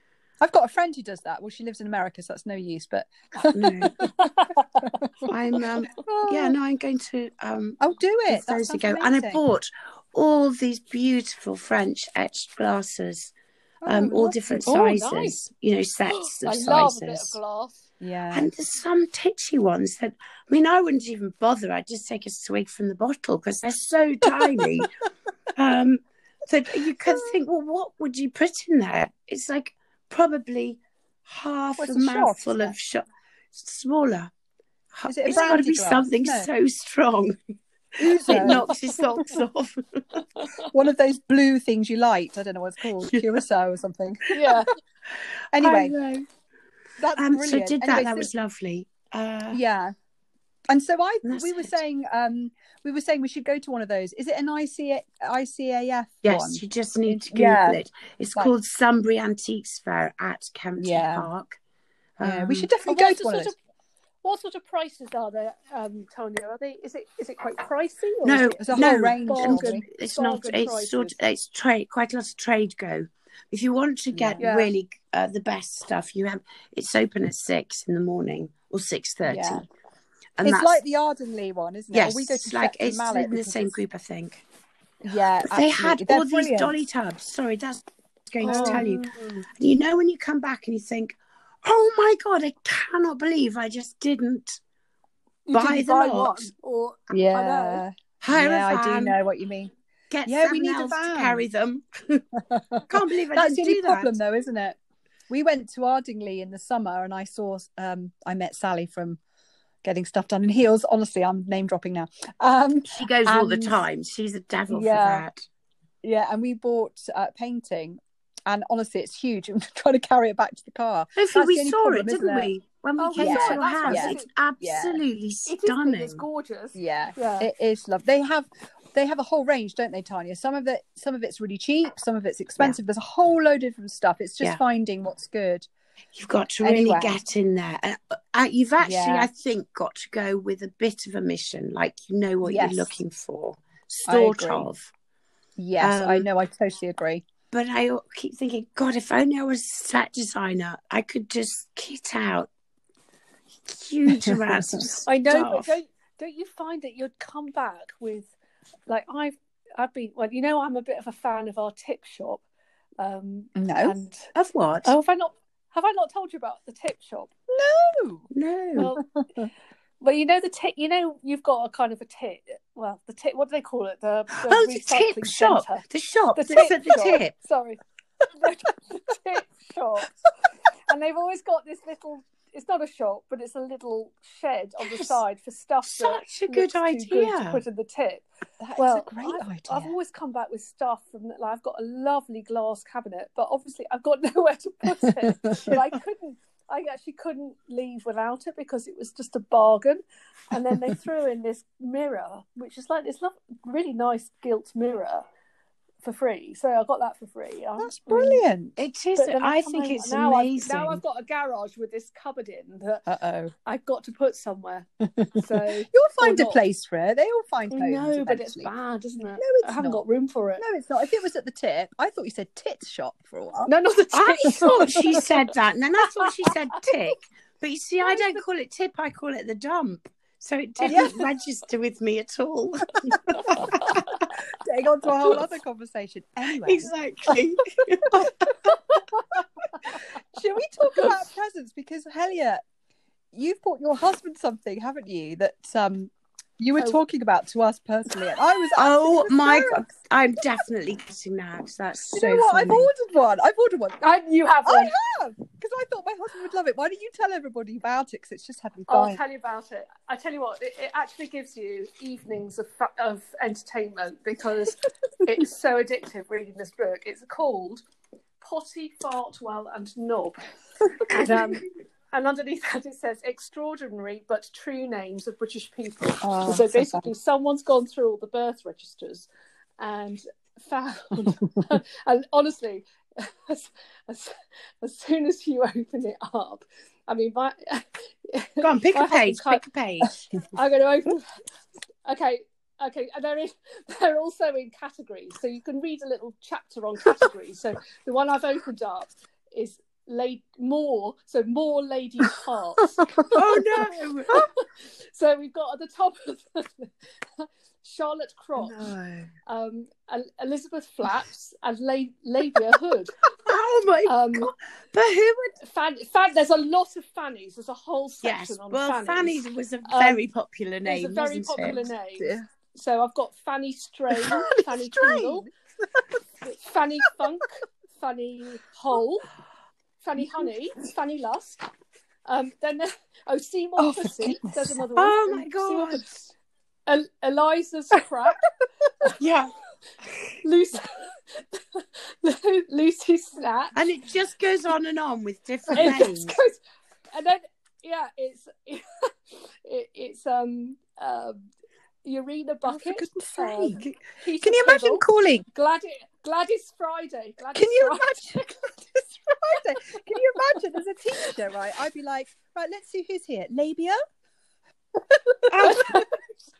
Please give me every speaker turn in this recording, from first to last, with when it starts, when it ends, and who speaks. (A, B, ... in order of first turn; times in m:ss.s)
0:00.4-0:04.1 A
0:03.5-0:04.0 B
0:04.0-0:04.6 C
0:04.8-0:05.3 A
0:05.3-0:13.3 B
0:06.0-0:06.6 A
0:07.8-0:09.4 A
0:13.8-0:14.7 A
0:13.8-0:17.4 B
0:14.6-0:15.3 C
0:16.1-0:17.8 C
0:18.0-0:18.5 A
0:18.3-0:24.9 B
0:25.5-0:34.3 B
0:27.0-0:27.4 A
0:31.8-0:32.7 A
0:34.9-0:37.4 B
0:35.1-0:36.5 A
0:38.0-0:39.4 A
0:38.3-0:40.4 B
0:38.3-0:38.6 C
0:40.4-0:40.6 C
0:40.7-0:44.6 A
0:43.0-0:43.4 B
0:44.3-0:44.7 C
0:45.2-0:46.2 B
0:45.5-0:45.9 A
0:47.0-0:48.3 A
0:47.2-0:49.6 B
0:49.5-0:49.9 A
0:50.7-0:57.8 A
0:51.2-0:51.7 B
0:56.2-1:01.6 B
1:00.8-1:01.3 A
1:02.2-1:02.7 B
1:02.2-1:03.5 A
1:02.8-1:03.6 C
1:04.2-1:11.2 C
1:08.2-1:19.6 B
1:08.6-1:09.8 A
1:14.1-1:14.4 A
1:14.4-1:14.7 C
1:19.2-1:19.6 A
1:20.4-1:20.8 B
1:20.4-1:23.7 A
1:21.9-1:24.4 B
1:25.0-1:26.7 A
1:25.5-1:34.6 B
1:28.4-1:28.8 C
1:28.4-1:29.4 A
1:35.5-1:37.8 C
1:35.5-1:36.5 B
1:37.1-1:39.7 A
1:38.2-1:39.2 B
1:40.1-1:42.2 B
1:40.2-1:41.4 A
1:42.4-1:44.8 A
1:42.9-1:44.1 B
1:45.3-1:49.2 A
1:49.8-1:53.8 A
1:52.9-1:55.4 B
1:54.7-1:55.2 A
1:56.0-2:02.5 A
2:01.2-2:06.2 B
2:03.0-2:04.3 C
2:03.1-2:05.0 A
2:05.4-2:07.5 C
2:06.7-2:15.7 A
2:16.1-2:24.9 B
2:16.6-2:17.2 A
2:18.8-2:19.3 A
2:22.4-2:22.9 A
2:24.0-2:24.7 A
2:25.6-2:27.2 A
2:25.8-2:26.3 B
2:27.5-2:32.5 B
2:33.7-2:35.8 B
2:34.1-2:34.8 A
2:35.1-2:38.3 C
2:38.9-2:42.4 C
2:43.0-2:44.3 C
2:43.5-2:43.9 A
2:44.3-2:44.9 B
2:44.8-2:47.3 C
2:47.5-2:48.3 A
2:48.3-2:49.0 B
2:48.8-2:49.0 C
2:49.0-2:49.5 A
2:50.0-3:00.3 C
2:54.4-2:57.3 B
3:00.9-3:25.2 C
3:05.9-3:07.6 B
3:08.6-3:09.9 A
3:15.0-3:15.8 A
3:26.0-3:28.4 C
3:27.8-3:28.8 A
3:28.8-3:31.0 B
3:29.2-3:33.0 C
3:33.1-3:33.5 A
3:33.6-3:36.6 C
3:35.9-3:38.7 A
3:37.7-3:40.6 C
3:39.4-3:40.0 A
3:40.6-3:43.7 A
3:43.6-3:45.2 C
3:44.1-3:54.1 B
3:44.6-3:45.2 A
3:46.2-3:46.5 C
3:48.0-3:48.4 C
3:50.8-3:51.2 C
3:50.8-3:51.2 A
3:53.3-3:54.2 C
3:53.5-3:54.0 A
3:54.5-3:57.4 A
3:56.6-3:59.0 B
3:58.0-3:58.5 A
3:59.3-4:02.6 A
4:03.3-4:09.8 A
4:08.8-4:12.9 B
4:12.1-4:14.0 A
4:14.0-4:15.0 C
4:14.6-4:19.2 A
4:18.9-4:27.8 C
4:28.4-4:30.4 C
4:31.0-4:39.3 C
4:31.1-4:31.6 A
4:36.2-4:37.1 A
4:39.8-4:49.6 C
4:48.6-4:50.2 B
4:50.4-4:51.4 C
4:52.0-5:03.7 C
5:03.1-5:03.4 A
5:03.3-5:04.5 B
5:04.3-5:08.9 C
5:08.8-5:09.3 B
5:09.5-5:13.2 C
5:13.4-5:15.6 B
5:14.1-5:14.5 C
5:15.6-5:20.2 C
5:18.2-5:21.9 B
5:20.8-5:25.5 C
5:22.2-5:22.4 A
5:24.1-5:26.2 A
5:26.4-5:29.3 C
5:30.0-5:31.6 C
5:32.3-5:36.3 C
5:33.8-5:34.8 A
5:35.0-5:36.0 B
5:36.9-5:38.5 C
5:39.2-5:40.4 B
5:40.4-5:43.8 C
5:43.7-5:46.4 B
5:45.7-5:46.6 C
5:47.1-5:51.5 C
5:52.0-5:58.5 C
5:52.7-5:55.4 A
5:57.5-6:04.0 A
6:05.1-6:06.0 A
6:05.5-6:06.0 B
6:05.6-6:06.2 C